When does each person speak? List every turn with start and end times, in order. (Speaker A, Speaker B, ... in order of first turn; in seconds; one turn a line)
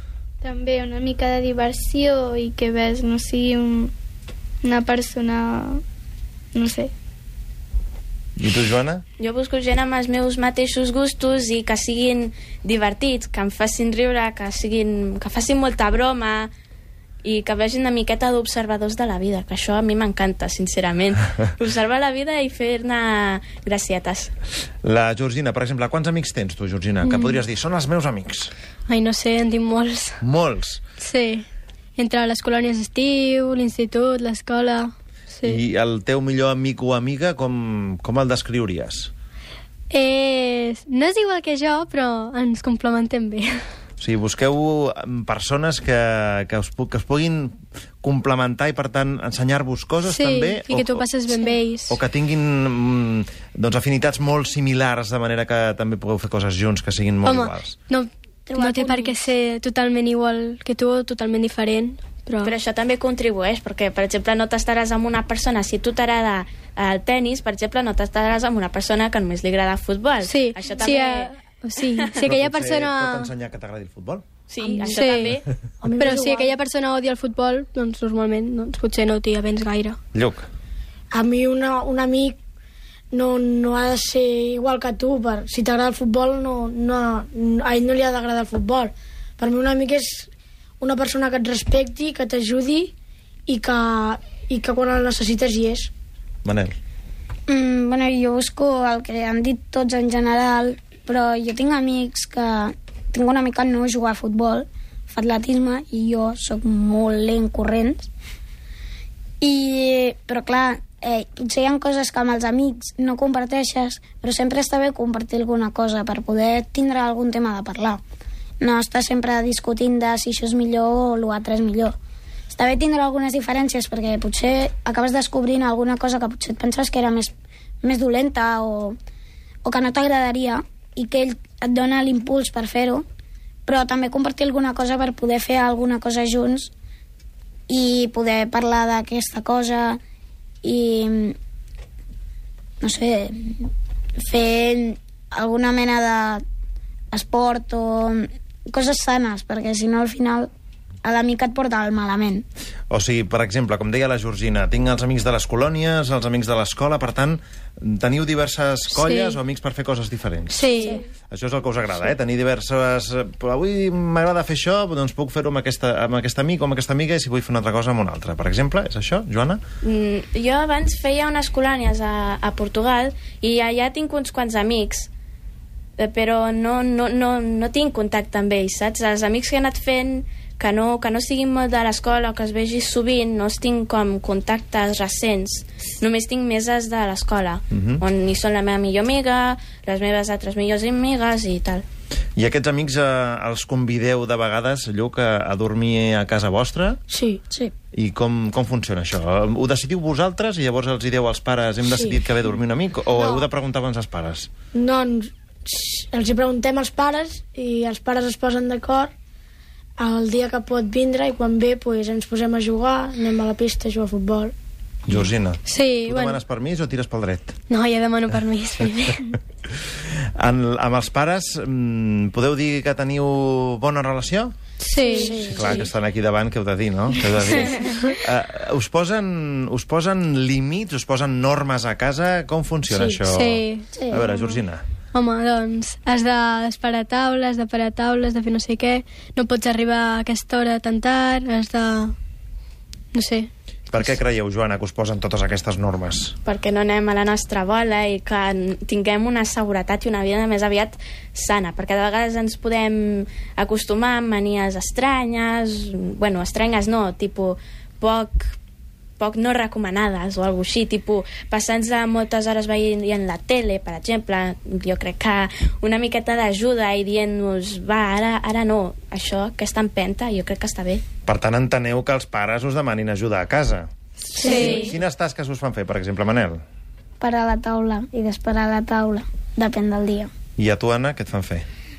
Speaker A: 0.4-3.9
Speaker A: 4.6-5.8
Speaker A: 6.5-6.9
Speaker B: 8.4-9.0
Speaker C: 9.2-16.5
Speaker C: 17.2-24.3
Speaker B: 24.8-28.5
Speaker D: 27.1-27.3
Speaker D: 28.9-30.2
Speaker B: 30.2-30.8
Speaker D: 31.0-31.4
Speaker D: 31.9-35.6
Speaker B: 35.4-39.1
Speaker D: 39.9-43.6
Speaker B: 44.0-51.2
Speaker D: 50.0-52.0
Speaker B: 51.9-57.8
Speaker D: 57.2-62.5
Speaker E: 58.5-59.1
Speaker C: 62.4-71.3
Speaker D: 70.2-73.3
Speaker B: 72.2-74.2
Speaker C: 74.5-75.4
Speaker F: 74.6-75.2
Speaker D: 74.7-75.4
Speaker F: 75.8-76.6
Speaker D: 76.0-80.0
Speaker B: 80.1-80.5
Speaker F: 81.1-82.3
Speaker F: 83.1-90.3
Speaker F: 90.8-92.9
Speaker F: 93.5-95.9
Speaker B: 96.4-96.8
Speaker E: 97.5-108.1
Speaker E: 109.4-118.0
Speaker E: 118.6-122.0
Speaker E: 122.5-127.3
Speaker E: 127.8-129.0
Speaker E: 129.6-133.0
Speaker E: 133.7-136.7
Speaker E: 137.7-140.0
Speaker E: 140.6-141.4
Speaker E: 142.8-146.4
Speaker E: 147.1-150.5
Speaker E: 151.0-152.4
Speaker B: 152.9-160.8
Speaker D: 158.9-159.4
Speaker D: 160.5-161.0
Speaker E: 160.7-161.0
Speaker B: 161.3-169.6
Speaker C: 169.8-175.1
Speaker C: 176.0-191.8
Speaker B: 187.7-188.0
Speaker B: 192.3-197.0
Speaker F: 197.1-197.4
Speaker B: 197.9-204.5
Speaker F: 201.9-202.2
Speaker F: 203.2-203.4
Speaker F: 204.7-209.1
Speaker F: 210.0-214.5
Speaker B: 215.1-217.6
Speaker D: 215.7-216.4
Speaker D: 217.7-219.3
Speaker B: 220.3-224.5
Speaker D: 224.8-225.4
Speaker F: 225.0-225.9
Speaker B: 225.3-234.8
Speaker D: 232.9-233.9
Speaker E: 233.9-234.2
Speaker D: 235.1-242.2
Speaker D: 243.1-244.1
Speaker B: 243.9-246.3
Speaker C: 246.4-258.5
Speaker C: 259.2-271.0
Speaker B: 271.2-276.6
Speaker C: 274.4-274.9
Speaker E: 274.4-274.8
Speaker D: 274.4-274.9
Speaker E: 277.2-280.3
Speaker B: 280.6-281.6